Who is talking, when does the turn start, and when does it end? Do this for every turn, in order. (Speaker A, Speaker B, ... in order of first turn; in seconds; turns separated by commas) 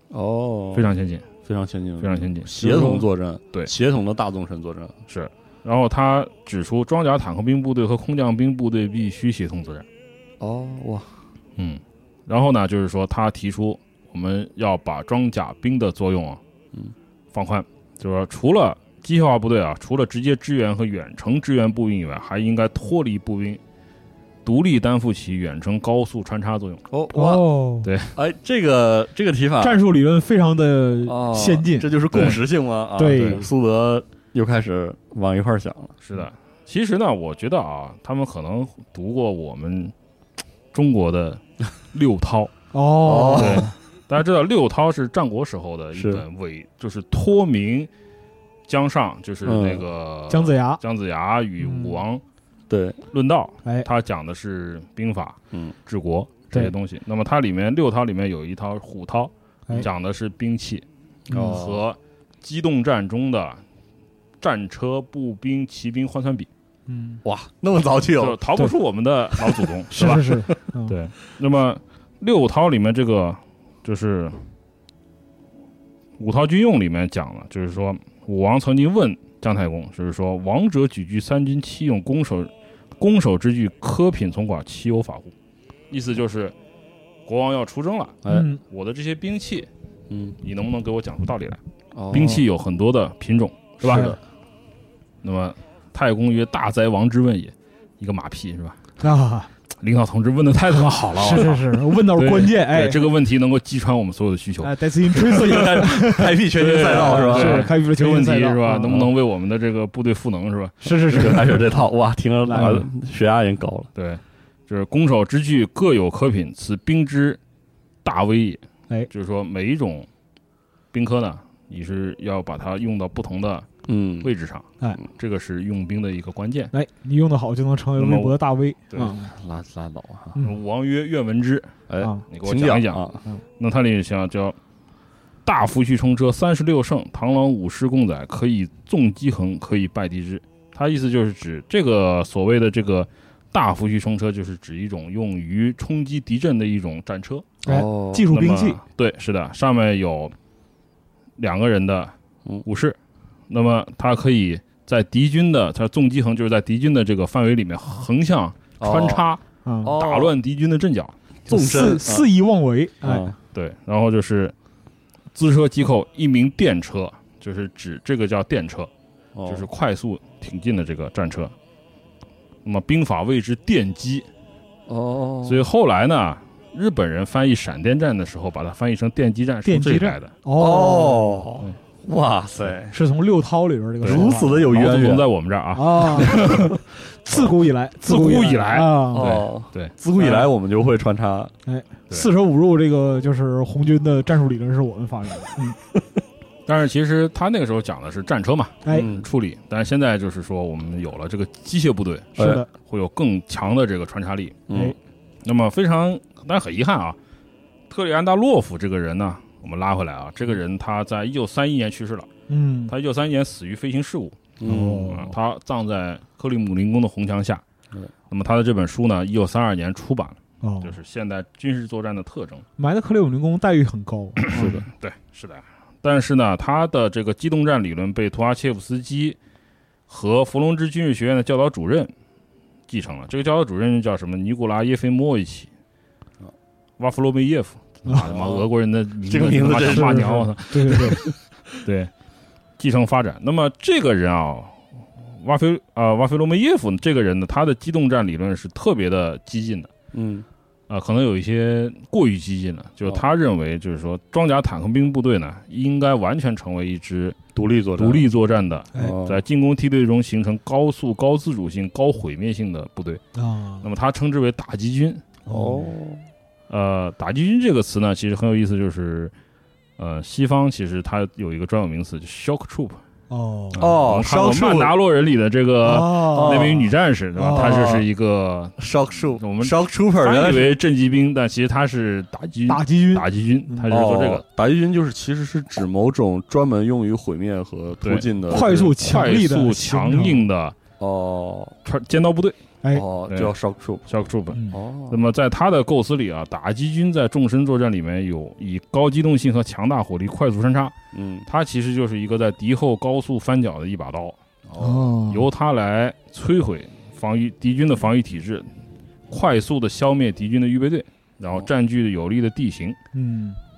Speaker A: 0.1-0.9, Speaker B: 0.7-1.3, Speaker A: 1.4-5.0, Speaker B: 2.0-3.7, Speaker B: 5.1-9.8, Speaker A: 10.4-11.2, Speaker B: 11.6-16.4, Speaker B: 17.3-23.6, Speaker B: 24.4-26.8, Speaker A: 26.9-27.5, Speaker C: 27.1-27.9, Speaker B: 27.8-28.1, Speaker A: 28.1-29.8, Speaker C: 29.6-32.0, Speaker A: 31.1-36.0, Speaker B: 32.1-32.4, Speaker C: 33.0-33.4, Speaker B: 33.1-33.4, Speaker B: 36.0-39.9, Speaker B: 40.7-42.5, Speaker C: 42.7-43.7, Speaker A: 43.0-43.7, Speaker B: 43.4-47.9, Speaker A: 45.9-46.2, Speaker B: 48.7-52.2, Speaker A: 49.4-49.8, Speaker C: 50.3-50.8, Speaker C: 51.6-52.0, Speaker A: 52.7-53.0, Speaker B: 53.1-60.8, Speaker A: 61.3-61.8, Speaker C: 61.3-61.6, Speaker B: 61.4-63.6, Speaker B: 64.4-66.5, Speaker C: 66.9-67.2, Speaker A: 67.2-68.4, Speaker B: 68.2-74.4, Speaker C: 69.9-70.9, Speaker B: 76.2-85.3, Speaker B: 85.9-86.5, Speaker B: 87.2-89.7, Speaker C: 88.3-88.6, Speaker A: 90.1-90.4, Speaker B: 90.4-94.2, Speaker A: 91.9-92.4, Speaker A: 93.8-94.2, Speaker C: 93.9-94.2, Speaker B: 95.2-98.8, Speaker C: 99.0-99.5, Speaker B: 99.8-105.8, Speaker C: 101.1-103.0, Speaker C: 104.6-109.0, Speaker A: 105.1-107.7, Speaker B: 106.5-111.5, Speaker C: 110.8-111.7, Speaker A: 111.1-113.9, Speaker C: 112.5-112.8, Speaker B: 113.9-117.4, Speaker B: 118.0-120.1, Speaker B: 120.9-123.7, Speaker A: 123.9-124.3, Speaker B: 124.2-126.7, Speaker C: 126.7-129.3, Speaker B: 128.0-128.4, Speaker A: 129.1-130.4, Speaker B: 130.4-131.7, Speaker A: 131.9-133.2, Speaker C: 132.0-132.2, Speaker B: 132.3-134.6, Speaker B: 135.4-147.5, Speaker A: 147.6-148.3, Speaker C: 147.6-148.8, Speaker B: 148.3-150.3, Speaker B: 151.4-152.1, Speaker B: 152.6-153.0, Speaker B: 153.5-161.1, Speaker A: 158.8-159.2, Speaker C: 159.6-159.9, Speaker A: 159.8-160.4, Speaker A: 161.5-162.3, Speaker C: 161.5-163.3, Speaker A: 163.0-163.3, Speaker B: 163.5-164.5, Speaker B: 165.3-168.9, Speaker A: 169.3-169.7, Speaker B: 169.4-171.5, Speaker B: 172.6-174.3, Speaker A: 174.9-175.7, Speaker B: 175.4-180.3, Speaker C: 179.6-181.4, Speaker A: 180.6-182.9, Speaker C: 182.9-184.8, Speaker B: 184.0-186.8, Speaker A: 184.0-185.2, Speaker C: 185.7-186.7, Speaker C: 187.2-189.4, Speaker B: 188.0-189.9, Speaker A: 189.1-191.5, Speaker C: 190.2-190.5, Speaker C: 191.6-195.8, Speaker B: 196.7-204.6, Speaker A: 198.9-199.3, Speaker A: 202.4-202.6, Speaker C: 202.4-202.7, Speaker A: 204.7-204.9, Speaker B: 205.4-207.2, Speaker B: 207.9-212.3, Speaker C: 212.5-212.9, Speaker B: 212.9-217.6, Speaker A: 214.6-215.2, Speaker C: 214.6-215.3, Speaker B: 218.3-222.6, Speaker C: 220.6-220.9, Speaker C: 222.8-224.8, Speaker B: 224.4-229.4, Speaker A: 224.5-224.8, Speaker B: 230.1-232.1, Speaker B: 232.9-235.7, Speaker B: 237.0-242.1, Speaker A: 238.2-238.7, Speaker A: 239.2-241.3, Speaker C: 239.8-241.2, Speaker B: 242.8-249.9, Speaker A: 250.1-250.5, Speaker B: 250.9-257.4, Speaker A: 257.5-258.3, Speaker B: 258.0-263.2, Speaker A: 258.9-259.4, Speaker C: 263.3-263.9, Speaker B: 263.8-265.2, Speaker C: 265.4-265.8, Speaker A: 265.5-266.3, Speaker B: 266.7-269.3, Speaker B: 270.0-273.0, Speaker C: 273.3-273.9, Speaker B: 273.7-284.4, Speaker A: 273.8-274.9, Speaker C: 275.8-276.8, Speaker A: 276.3-276.9, Speaker C: 277.4-277.9, Speaker A: 277.5-278.1, Speaker A: 278.8-280.8, Speaker C: 282.7-283.9, Speaker A: 283.9-288.9, Speaker B: 288.0-290.7, Speaker C: 288.5-290.4, Speaker A: 291.0-291.8, Speaker B: 291.8-292.6, Speaker A: 292.9-294.0, Speaker B: 293.3-293.5, Speaker B: 294.1-300.9, Speaker C: 294.5-294.8, Speaker A: 294.7-295.3, Speaker A: 301.1-301.5, Speaker B: 301.4-304.4, Speaker A: 304.6-305.1, Speaker C: 304.8-305.5, Speaker B: 305.3-308.7, Speaker B: 309.3-313.0, Speaker C: 313.1-313.6